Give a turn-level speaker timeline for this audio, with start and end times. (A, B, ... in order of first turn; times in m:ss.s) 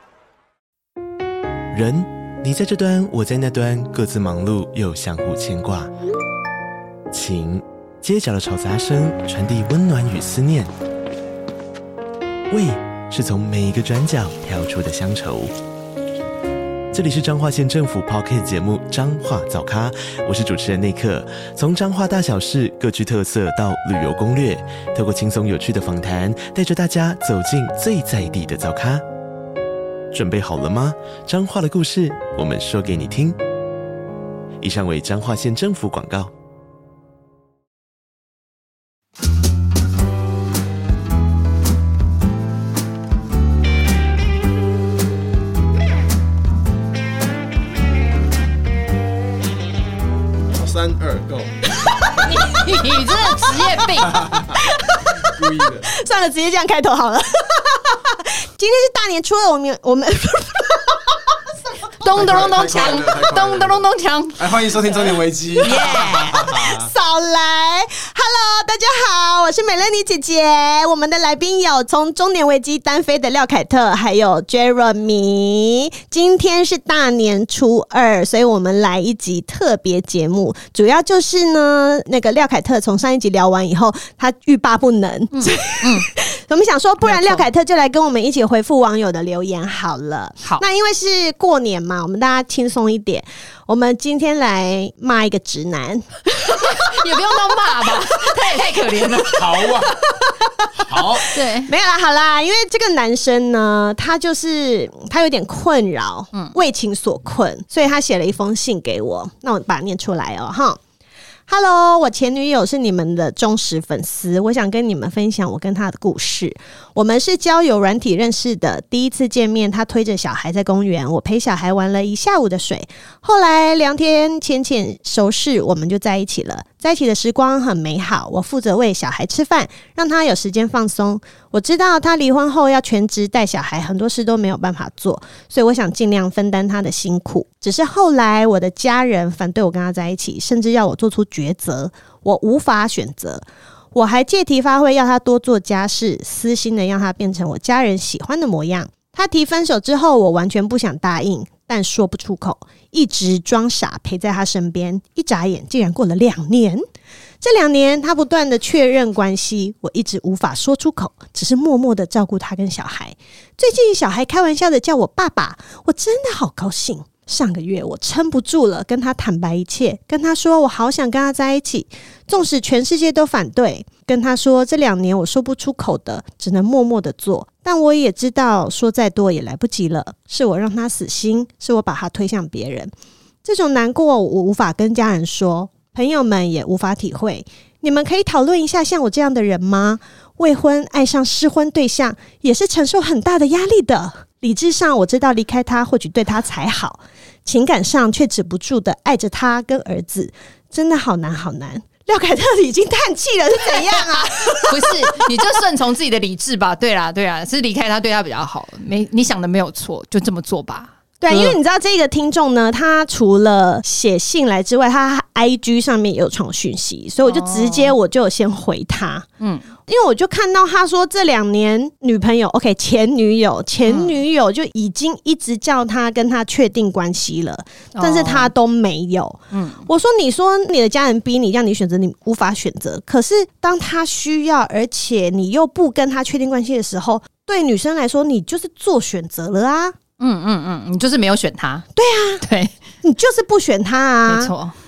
0:01.7-0:05.9 A
0:07.1-0:10.7 A
0:12.5-0:15.5 A
0:16.9-0:29.0 A
0:30.1-0:33.4 A
0:34.6-0:36.3 A
0:50.5-0:52.5 B
0:51.8-0:52.6 C
0:52.2-0:54.2 D
0:54.0-0:54.6 B
0:54.5-0:55.1 C
0:55.2-0:55.9 B
0:55.8-1:01.3 C
1:02.0-1:04.4 D
1:02.1-1:03.9 B
1:04.4-1:06.9 B
1:05.6-1:37.2 C
1:05.6-1:06.3 D
1:25.3-1:26.1 D
1:27.0-1:27.4 D
1:36.5-1:39.7 D
1:39.0-1:50.8 C
1:39.4-1:40.0 B
1:40.7-1:41.2 B
1:41.3-1:41.7 D
1:46.3-1:46.6 D
1:51.5-2:36.8 C
2:37.4-3:02.9 C
3:03.4-3:25.2 C
3:24.7-3:31.6 D
3:31.2-3:39.2 C
3:37.2-3:37.9 D
3:39.4-3:39.6 D
3:39.9-4:00.0 C
3:43.8-3:44.2 D
3:47.9-3:48.5 D
3:49.5-3:49.9 D
4:00.2-4:01.8 D
4:02.0-4:02.4 C
4:02.4-4:02.7 D
4:03.0-4:04.5 C
4:04.2-4:04.7 D